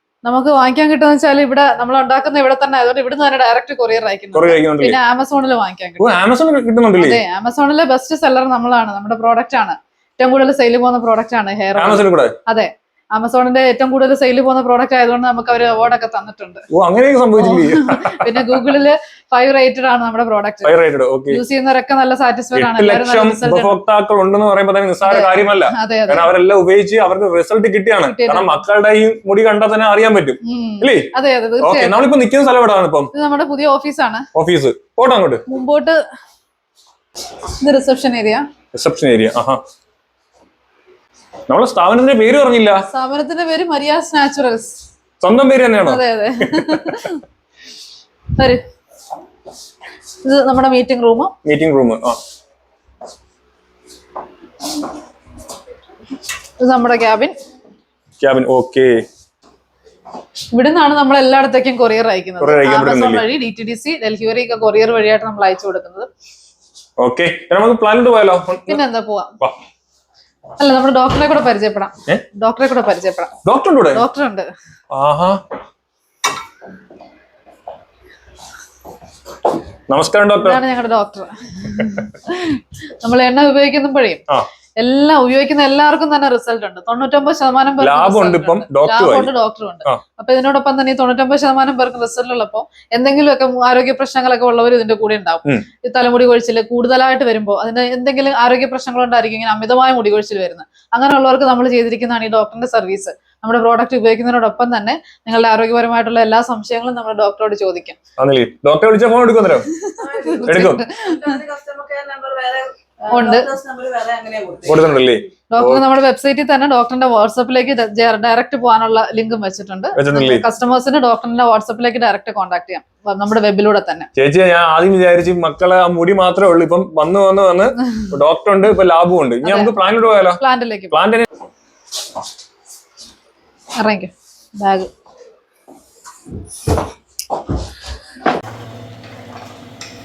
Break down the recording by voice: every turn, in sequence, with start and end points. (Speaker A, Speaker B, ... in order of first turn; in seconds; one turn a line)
Speaker A: 0.2-6.1
Speaker B: 4.3-5.0
Speaker B: 6.0-7.2
Speaker A: 7.0-16.6
Speaker B: 11.7-12.3
Speaker B: 16.7-18.6
Speaker A: 17.4-20.7
Speaker B: 20.6-21.4
Speaker A: 21.3-23.8
Speaker B: 22.5-31.1
Speaker A: 25.1-26.3
Speaker A: 28.0-28.6
Speaker A: 30.4-32.0
Speaker B: 31.6-33.1
Speaker A: 33.1-34.2
Speaker B: 34.3-35.4
Speaker A: 35.5-36.0
Speaker A: 37.6-38.4
Speaker B: 38.7-39.6
Speaker B: 41.5-42.8
Speaker A: 42.9-44.8
Speaker B: 45.2-46.0
Speaker A: 45.8-47.2
Speaker B: 46.5-46.9
Speaker A: 50.2-51.3
Speaker B: 51.5-52.2
Speaker A: 56.6-57.3
Speaker B: 58.2-58.9
Speaker A: 60.5-66.1
Speaker B: 62.4-63.2
Speaker B: 67.0-68.8
Speaker A: 68.7-69.3
Speaker A: 70.6-73.3
Speaker B: 73.4-74.0
Speaker A: 73.9-74.5
Speaker B: 74.9-75.4
Speaker B: 79.9-80.6
Speaker A: 80.4-84.2
Speaker A: 84.8-108.0
Speaker B: 87.8-89.3
Speaker B: 108.2-109.7
Speaker A: 109.9-111.4
Speaker C: 110.2-114.8
Speaker B: 110.4-110.8
Speaker A: 113.1-113.5
Speaker B: 114.7-115.8
Speaker A: 115.5-124.1
Speaker B: 120.0-120.4
Speaker B: 124.2-130.4
Speaker A: 129.4-129.7
Speaker A: 130.4-131.0
Speaker B: 130.9-131.2
Speaker A: 133.8-134.9